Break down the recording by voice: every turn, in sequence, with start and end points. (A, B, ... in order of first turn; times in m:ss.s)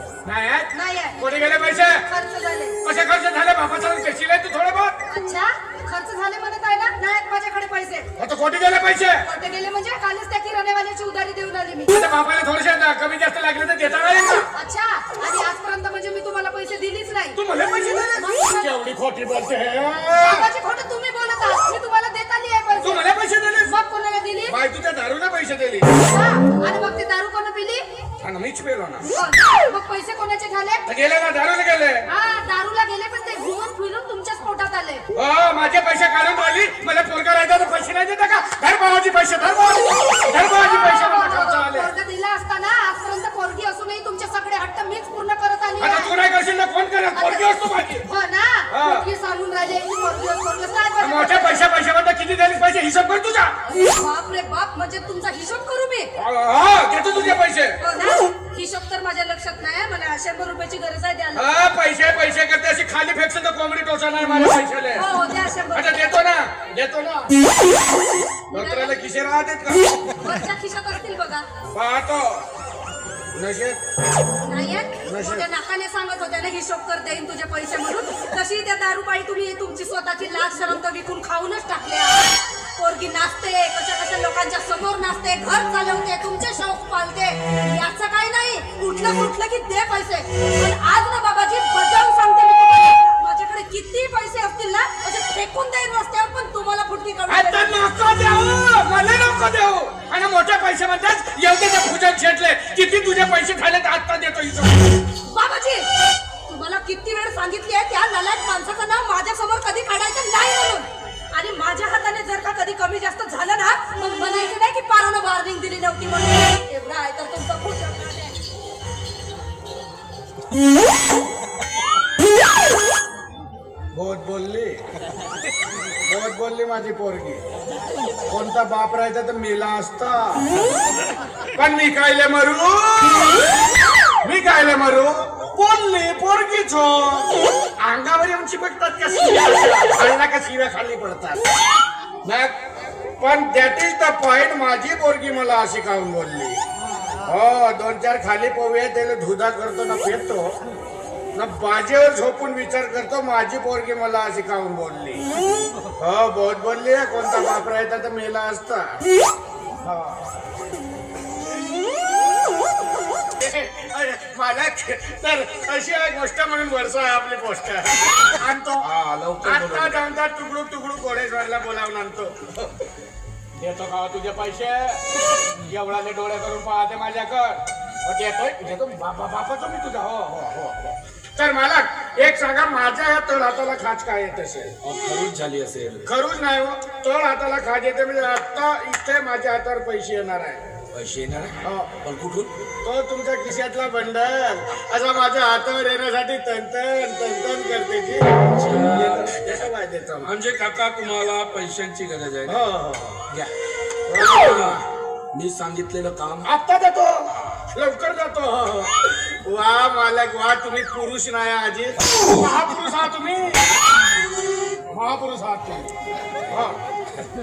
0:00.2-0:02.0 A
0:00.7-0:01.2 B
0:01.9-0:02.8 B
0:02.8-0:05.0 A
0:05.1-0:08.1 B
0:08.2-0:09.3 A
0:09.2-0:12.0 B
0:11.9-0:14.5 A
0:14.5-0:17.4 B
0:17.4-0:20.5 A
0:18.2-0:18.8 B
0:20.2-0:23.0 B
0:22.8-0:23.7 A
0:23.6-0:24.6 B
0:24.5-0:25.9 A
0:26.0-0:27.8 B
0:28.2-0:29.1 A
0:29.1-0:30.8 B
0:30.9-0:32.0 A
0:32.1-0:35.0 B
0:35.2-0:41.9 A
0:40.3-0:46.2 B
0:45.8-0:48.1 A
0:47.1-0:51.6 B
0:48.7-0:49.1 A
0:51.0-0:53.6 A
0:53.7-0:56.1 B
0:56.2-0:57.8 A
0:57.8-1:01.7 B
1:01.3-1:05.1 A
1:05.0-1:06.1 B
1:05.7-1:07.5 A
1:08.5-1:09.0 B
1:08.5-1:10.1 A
1:10.2-1:11.5 B
1:11.7-1:12.5 A
1:13.3-1:13.8 A
1:14.4-1:37.8 B
1:15.0-1:15.5 A
1:37.3-1:45.0 A
1:45.3-1:45.9 B
1:46.5-1:58.4 B
2:03.9-2:04.8 A
2:06.0-2:07.4 A
2:08.3-2:10.5 A
2:11.6-2:13.4 A
2:14.2-2:17.3 A
2:17.8-2:21.4 A
2:22.2-2:22.5 A
2:23.2-2:26.6 A
2:27.2-2:30.5 A
2:31.4-2:35.2 A
2:36.0-2:39.0 A
2:39.8-2:40.2 A
2:43.4-2:48.9 A
2:48.8-2:50.0 C
2:49.4-2:52.7 A
2:53.6-2:55.0 A
2:55.5-3:04.8 A
3:04.8-3:06.1 C
3:06.0-3:10.6 A
3:10.9-3:12.5 C
3:11.6-3:12.0 A
3:12.8-3:20.3 A
3:18.5-3:19.7 C
3:20.2-3:22.6 C
3:22.4-3:23.2 A
3:24.1-3:24.8 A
3:24.1-3:26.5 C
3:26.4-3:33.7 A
3:34.9-3:35.9 A
3:36.5-3:36.8 A